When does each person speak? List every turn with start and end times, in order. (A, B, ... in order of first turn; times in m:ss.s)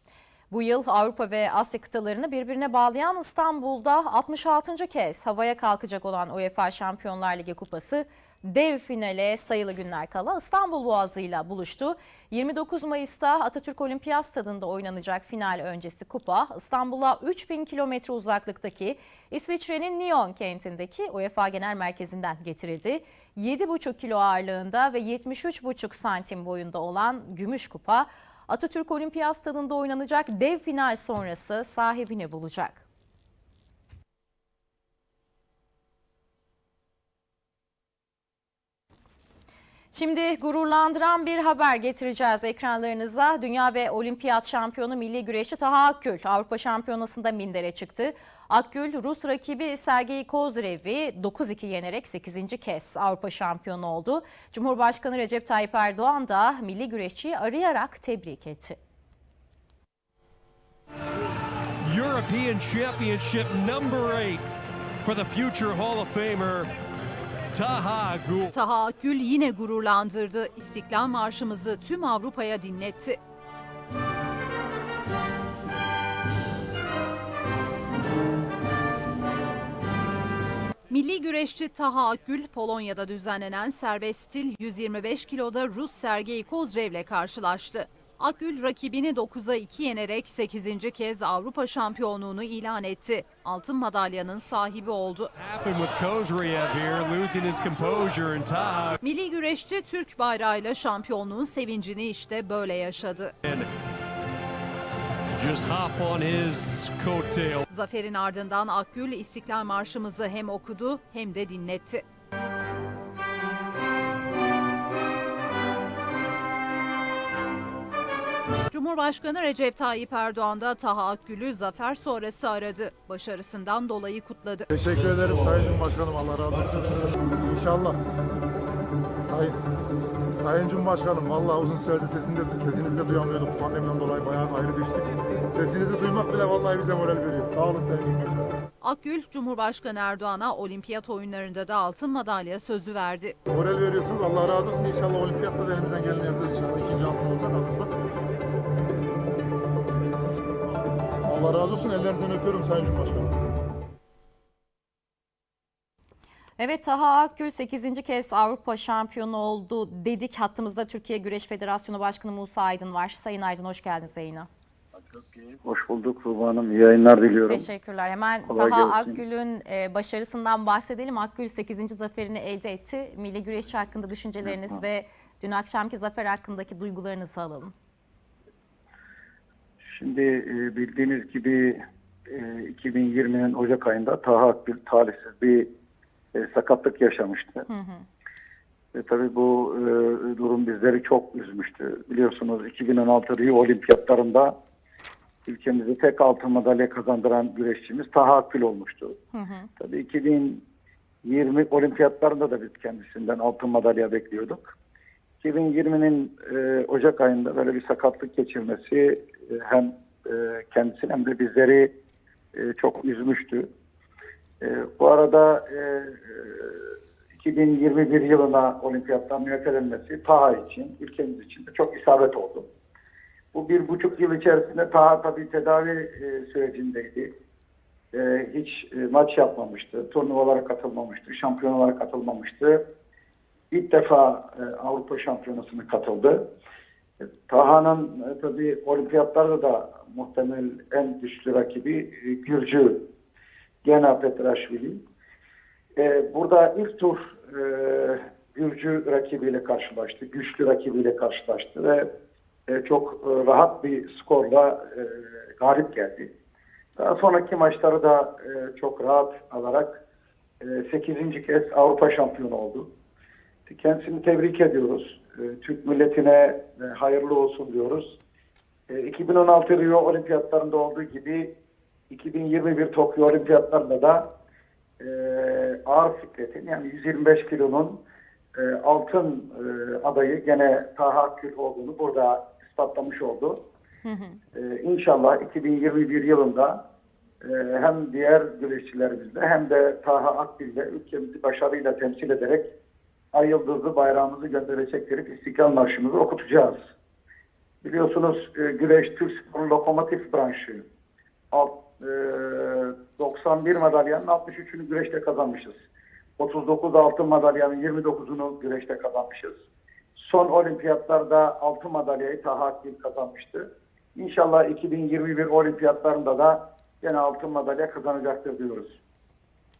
0:00.5-0:32.8 A
0:39.9-0:58.8 A
1:01.8-1:04.4 B
1:05.0-1:06.7 B
1:07.5-1:08.5 B
1:08.5-1:13.2 C
1:20.9-1:35.3 C
1:35.4-1:39.0 B
1:39.0-1:43.4 C
1:43.4-1:43.7 B
1:45.4-1:47.6 B
1:47.7-1:52.0 C
1:58.7-2:04.7 C
2:04.7-2:08.0 D
2:09.2-2:09.6 D
2:10.3-2:18.6 D
2:18.8-2:23.4 C
2:23.5-2:27.9 D
2:31.2-2:33.4 D
2:36.6-2:44.5 A
2:45.1-2:47.7 E
2:47.4-2:57.7 A
2:48.5-2:49.2 E
2:54.5-2:54.7 E
2:59.9-3:05.7 E
3:06.4-3:07.6 E
3:07.7-3:08.0 A
3:08.9-3:14.5 E
3:15.5-3:19.2 E
3:19.3-3:19.7 A
3:19.8-3:20.6 E
3:21.2-3:24.7 E
3:25.4-3:31.9 E
3:32.5-3:33.7 E
3:34.6-3:42.6 E
3:43.5-3:47.3 E
3:48.1-3:52.8 E
3:53.7-3:56.4 E
3:57.2-4:03.0 E
4:03.8-4:05.0 E
4:06.0-4:12.1 E
4:12.7-4:16.3 E
4:17.0-4:20.0 E
4:20.6-4:22.9 E
4:23.7-4:28.1 E
4:28.9-4:31.5 E
4:32.1-4:34.2 E
4:35.0-4:38.0 E
4:38.6-4:43.6 E
4:44.0-4:44.4 A
4:44.5-4:46.8 E
4:47.4-4:52.7 E
4:53.3-4:56.8 E
4:57.8-5:00.8 E
5:01.5-5:05.8 E
5:06.4-5:09.6 E
5:10.2-5:19.0 E